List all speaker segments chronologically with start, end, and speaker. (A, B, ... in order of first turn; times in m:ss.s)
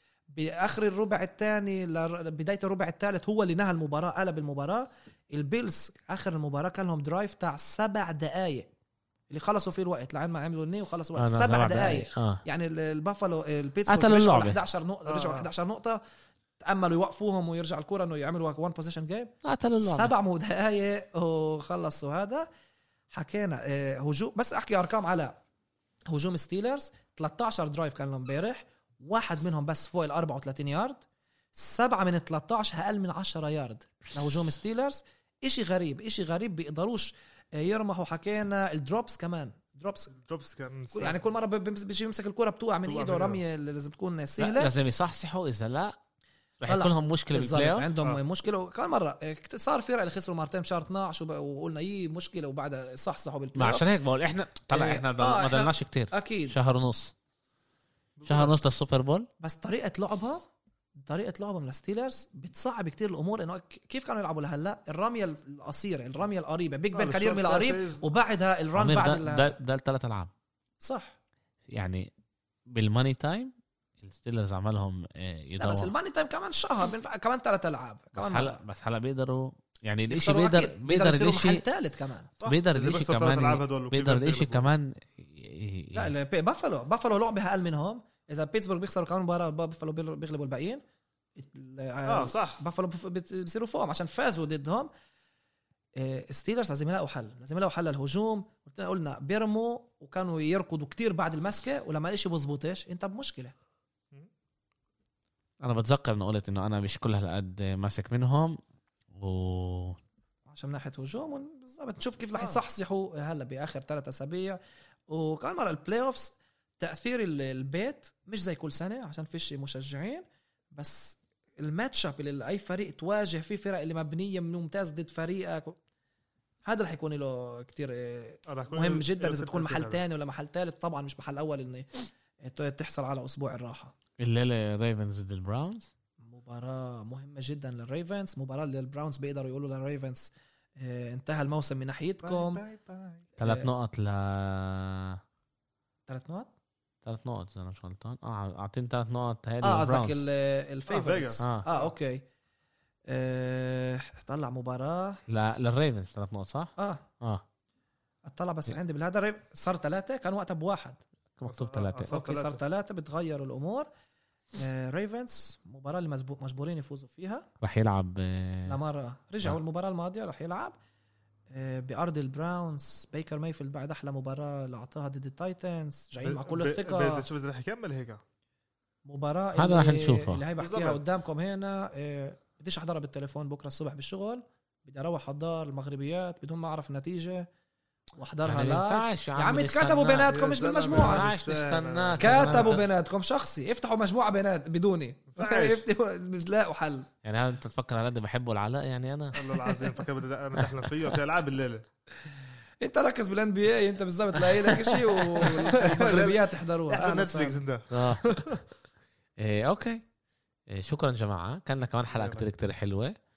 0:00.3-0:08.7 A
0:09.3-0:16.0 A
0:11.2-0:12.4 B
0:13.9-0:14.6 B
0:15.1-0:15.5 C
0:16.6-0:22.5 A
0:19.4-0:20.1 B
0:23.1-0:25.4 A
0:26.1-0:31.0 A
0:31.6-0:40.1 A
0:40.1-0:41.2 C
0:40.9-0:44.7 A
0:42.9-0:43.4 C
0:44.4-0:46.0 B
0:46.6-0:47.9 B
0:46.7-0:53.8 A
0:53.6-0:57.1 B
0:54.7-0:56.6 A
0:58.2-0:58.5 C
0:58.3-0:59.3 B
0:59.4-1:00.4 A
1:01.0-1:09.6 A
1:06.9-1:08.0 C
1:08.8-1:10.3 B
1:10.8-1:11.2 A
1:11.7-1:12.1 B
1:12.7-1:15.9 B
1:15.6-1:18.6 A
1:18.2-1:21.6 B
1:20.1-1:22.3 A
1:22.4-1:24.7 C
1:22.4-1:26.1 B
1:25.9-1:30.8 A
1:31.4-1:34.9 A
1:32.1-1:32.6 C
1:36.0-1:43.5 A
1:45.6-1:48.6 B
1:49.2-1:50.0 B
1:50.5-2:00.2 A
2:00.8-2:05.8 A
2:06.6-2:13.9 A
2:08.5-2:10.0 C
2:14.2-2:15.9 B
2:16.2-2:22.6 A
2:22.2-2:23.3 C
2:23.4-2:25.2 B
2:23.4-2:23.7 A
2:26.1-2:26.5 A
2:27.0-2:30.2 B
2:29.6-2:32.2 A
2:30.9-2:31.9 C
2:31.4-2:31.6 B
2:33.1-2:35.2 A
2:35.3-2:37.4 B
2:36.8-2:37.0 A
2:38.2-2:41.0 A
2:41.4-2:42.1 B
2:41.5-2:42.6 C
2:42.0-2:43.9 A
2:44.6-2:47.5 A
2:47.6-2:48.8 B
2:48.7-2:50.8 A
2:51.5-2:57.2 A
2:56.2-2:58.2 C
2:59.1-3:07.5 A
2:59.6-3:00.4 B
3:00.6-3:01.0 C
3:08.2-3:11.3 A
3:08.4-3:10.3 B
3:10.2-3:12.8 C
3:10.9-3:12.9 B
3:12.2-3:17.1 A
3:15.3-3:15.8 C
3:17.2-3:19.4 B
3:19.3-3:21.8 C
3:19.5-3:20.0 A
3:22.8-3:27.6 A
3:24.5-3:25.8 B
3:25.8-3:28.6 C
3:27.9-3:28.3 B
3:29.4-3:30.0 B
3:30.7-3:33.2 B
3:32.1-3:32.4 C